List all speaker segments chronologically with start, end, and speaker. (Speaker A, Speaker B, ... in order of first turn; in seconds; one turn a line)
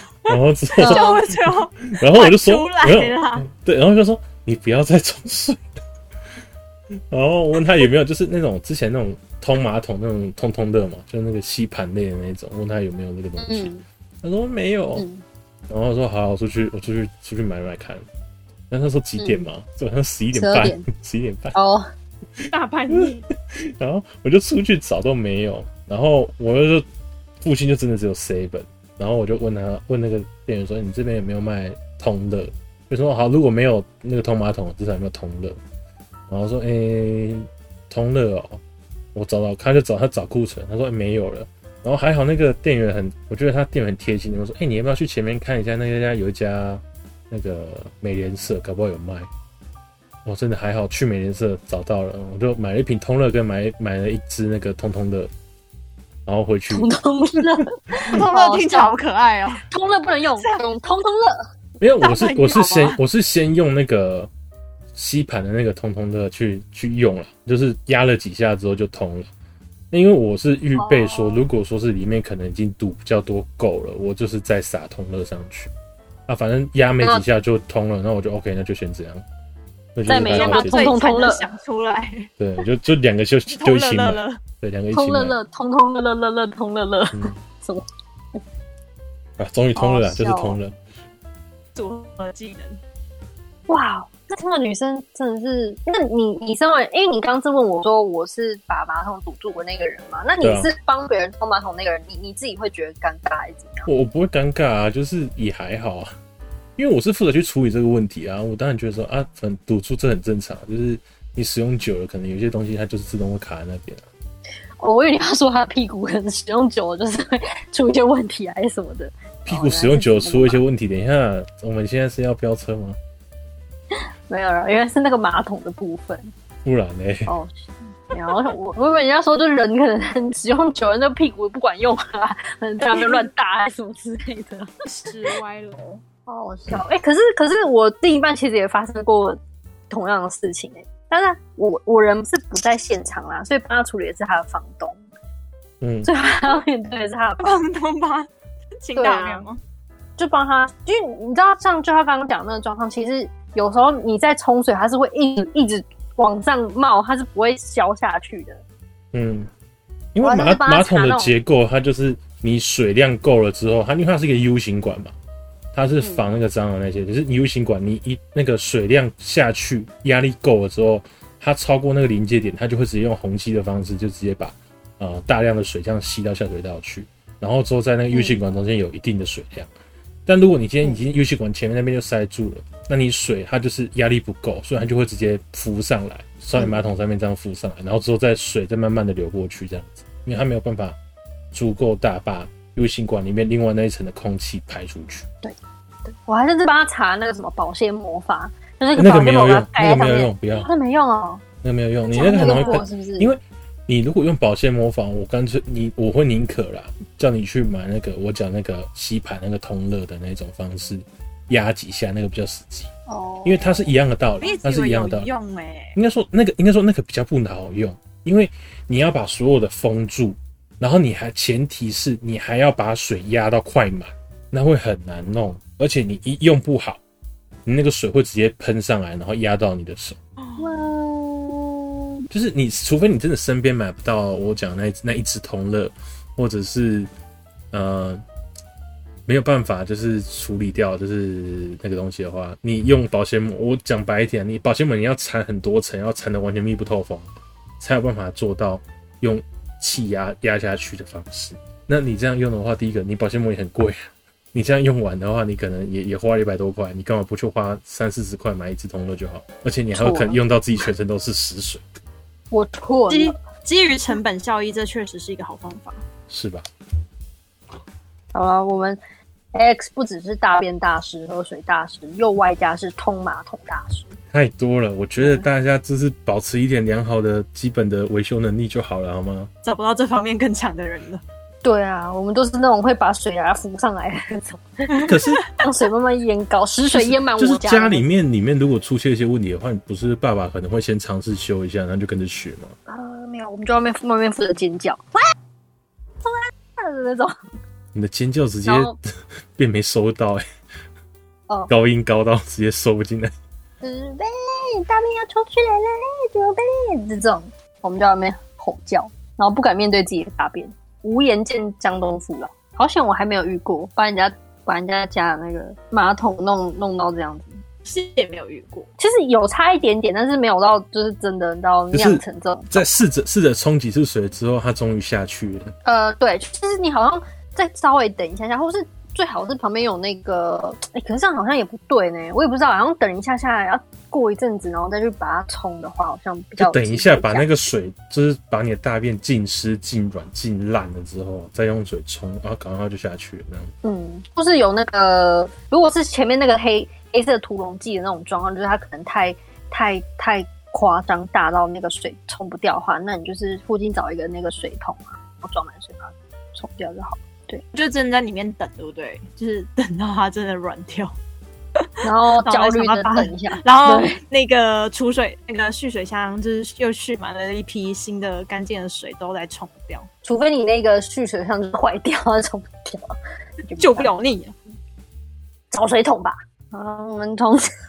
Speaker A: 0.2-5.6
Speaker B: 0.3-3.5
Speaker C: 0.8-1.2
Speaker A: 7.1-13.7
Speaker C: 13.4-13.8
Speaker A: 14.2-15.0
Speaker C: 14.9-15.2
Speaker A: 15.7-18.0
Speaker A: 18.7-21.5
Speaker C: 19.2-19.4
Speaker C: 20.3-20.9
Speaker C: 21.5-21.9
Speaker A: 22.4-26.9
Speaker B: 22.5-23.3
Speaker A: 27.4-35.6
Speaker A: 36.3-38.6
Speaker A: 39.1-49.3
Speaker A: 50.2-55.3
Speaker A: 56.2-56.9
Speaker C: 56.7-58.9
Speaker B: 58.0-59.6
Speaker C: 59.7-61.5
Speaker A: 61.8-64.3
Speaker B: 62.0-63.0
Speaker A: 64.9-69.3
Speaker A: 69.9-75.7
Speaker C: 70.7-71.5
Speaker A: 76.3-79.2
Speaker A: 79.9-81.0
Speaker C: 80.1-81.5
Speaker B: 80.2-82.3
Speaker A: 82.4-85.3
Speaker B: 83.5-84.4
Speaker C: 84.9-88.4
Speaker A: 89.4-90.8
Speaker C: 89.7-90.6
Speaker B: 91.7-92.8
Speaker C: 93.7-103.9
Speaker A: 100.4-100.7
Speaker A: 103.8-106.1
Speaker A: 106.8-114.0
Speaker C: 114.8-120.6
Speaker A: 119.4-123.0
Speaker C: 124.3-126.3
Speaker A: 126.6-127.3
Speaker C: 127.3-135.4
Speaker B: 132.9-133.3
Speaker B: 134.8-136.0
Speaker C: 136.2-139.4
Speaker C: 139.9-145.0
Speaker A: 145.8-146.1
Speaker C: 146.0-147.6
Speaker B: 147.4-148.3
Speaker B: 148.8-149.6
Speaker C: 148.9-149.5
Speaker C: 150.2-158.6
Speaker A: 159.1-159.5
Speaker A: 160.1-165.1
Speaker C: 160.2-161.3
Speaker A: 165.7-179.7
Speaker C: 166.0-166.3
Speaker C: 178.1-178.4
Speaker A: 180.2-191.0
Speaker C: 186.5-186.8
Speaker A: 191.5-195.3
Speaker C: 195.4-201.4
Speaker A: 198.9-200.7
Speaker A: 201.6-212.9
Speaker C: 202.1-203.3
Speaker B: 202.1-202.8
Speaker C: 213.1-213.9
Speaker A: 213.4-215.3
Speaker B: 214.4-215.9
Speaker A: 215.9-227.0
Speaker A: 227.7-230.2
Speaker B: 230.4-230.8
Speaker C: 230.6-232.2
Speaker A: 232.3-237.1
Speaker A: 237.7-238.2
Speaker A: 239.2-247.3
Speaker A: 247.8-261.8
Speaker C: 259.9-260.4
Speaker C: 262.5-263.4
Speaker B: 263.1-266.0
Speaker A: 266.3-266.6
Speaker C: 268.3-269.0
Speaker C: 269.5-274.1
Speaker A: 274.3-279.5
Speaker B: 279.6-281.2
Speaker C: 281.6-288.1
Speaker B: 284.9-285.7
Speaker A: 285.0-285.4
Speaker A: 286.9-292.7
Speaker C: 292.9-295.2
Speaker C: 296.2-297.4
Speaker A: 297.9-299.0
Speaker C: 298.6-299.0
Speaker A: 299.6-300.4
Speaker A: 301.7-303.3
Speaker C: 303.8-317.6
Speaker B: 317.8-318.9
Speaker C: 319.0-323.0
Speaker A: 321.9-325.7
Speaker C: 325.8-337.5
Speaker A: 336.6-343.7
Speaker C: 343.8-357.6
Speaker B: 357.7-361.1
Speaker C: 362.0-364.2
Speaker B: 362.4-370.1
Speaker C: 370.2-374.1
Speaker B: 373.8-374.5
Speaker C: 375.7-377.7